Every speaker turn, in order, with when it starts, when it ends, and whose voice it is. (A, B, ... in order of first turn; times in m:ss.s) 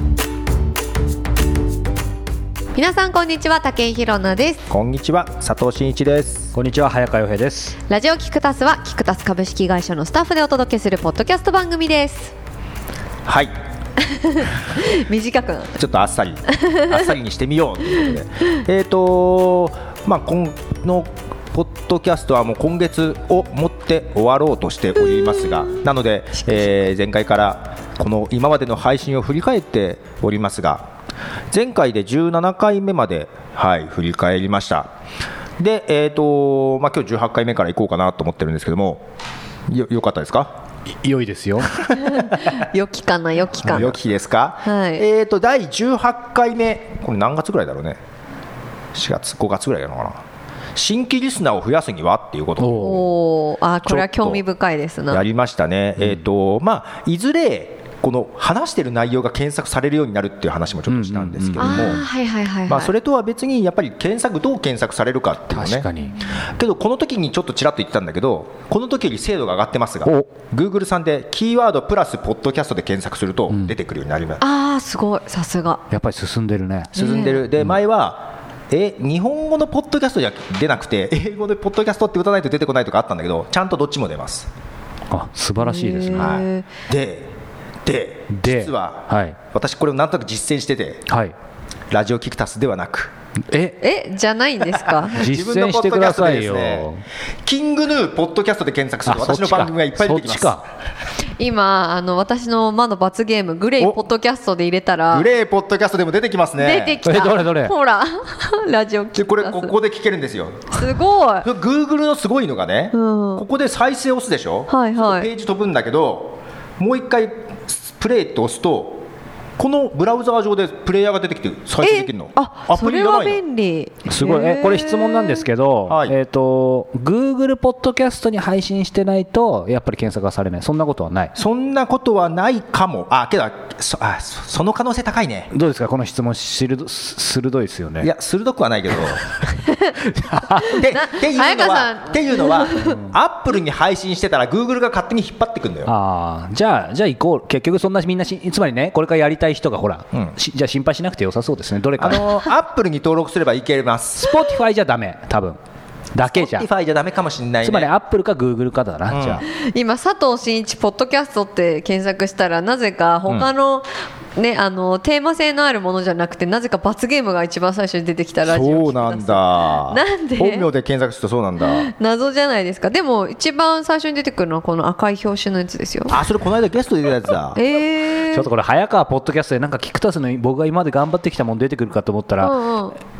0:02.7-0:04.6 A
0:04.7-0:06.5 B
0:06.5-0:07.8 C
0:07.9-0:12.3 A
0:13.2-0:13.5 B
0:14.0-0:15.8 A
0:15.8-0:30.9 B
0:16.5-0:17.1 A
0:25.4-0:25.8 A
0:26.5-0:26.7 A
0:31.5-0:34.9 B
0:35.6-0:39.1 B
0:39.7-0:40.6 B
0:41.0-0:41.8 C
0:41.6-0:42.5 B
0:41.9-0:44.0 A
0:43.5-0:48.0 B
0:44.6-0:45.0 A
0:48.9-0:50.2 B
0:50.7-0:53.0 B
0:52.6-0:53.1 C
0:52.7-0:55.2 A
0:53.8-0:54.4 B
0:55.1-1:02.0 B
1:00.9-1:02.0 C
1:01.6-1:02.9 A
1:02.7-1:05.9 B
1:05.5-1:06.2 C
1:06.4-1:14.4 B
1:14.4-1:15.8 A
1:15.9-1:16.9 C
1:16.9-1:24.5 B
1:17.0-1:17.5 A
1:25.1-1:26.4 C
1:25.6-1:26.7 A
1:26.1-1:27.3 B
1:27.8-1:31.1 B
1:28.3-1:29.4 C
1:31.1-1:31.3 C
1:31.9-1:33.1 B
1:33.5-1:33.8 C
1:33.8-1:35.2 A
1:34.8-1:36.9 B
1:35.1-1:37.0 C
1:37.4-1:40.6 B
1:39.0-1:40.6 C
1:41.4-1:45.3 A
1:45.1-1:47.3 B
1:46.6-1:49.7 A
1:47.0-1:47.7 C
1:49.2-1:50.9 B
1:50.7-1:51.5 A
1:51.4-1:59.0 B
1:52.9-1:53.4 A
1:54.7-1:55.3 A
1:59.6-2:03.4 B
2:01.8-2:05.4 A
2:04.0-2:11.3 C
2:05.9-2:06.2 B
2:11.3-2:15.5 B
2:15.5-2:18.1 C
2:18.0-2:19.2 B
2:20.1-2:20.8 C
2:20.6-2:25.9 B
2:20.7-2:23.0 A
2:22.8-2:23.1 C
2:25.9-2:32.3 C
2:32.0-2:34.3 B
2:34.2-2:35.6 C
2:36.1-2:36.7 C
2:36.2-2:37.9 B
2:37.6-2:39.4 C
2:39.1-2:39.4 B
2:39.5-2:50.7 A
2:48.4-2:51.9 B
2:51.6-2:56.2 A
2:56.1-2:57.6 B
2:57.5-2:58.5 A
2:58.3-3:02.6 C
3:02.4-3:03.0 A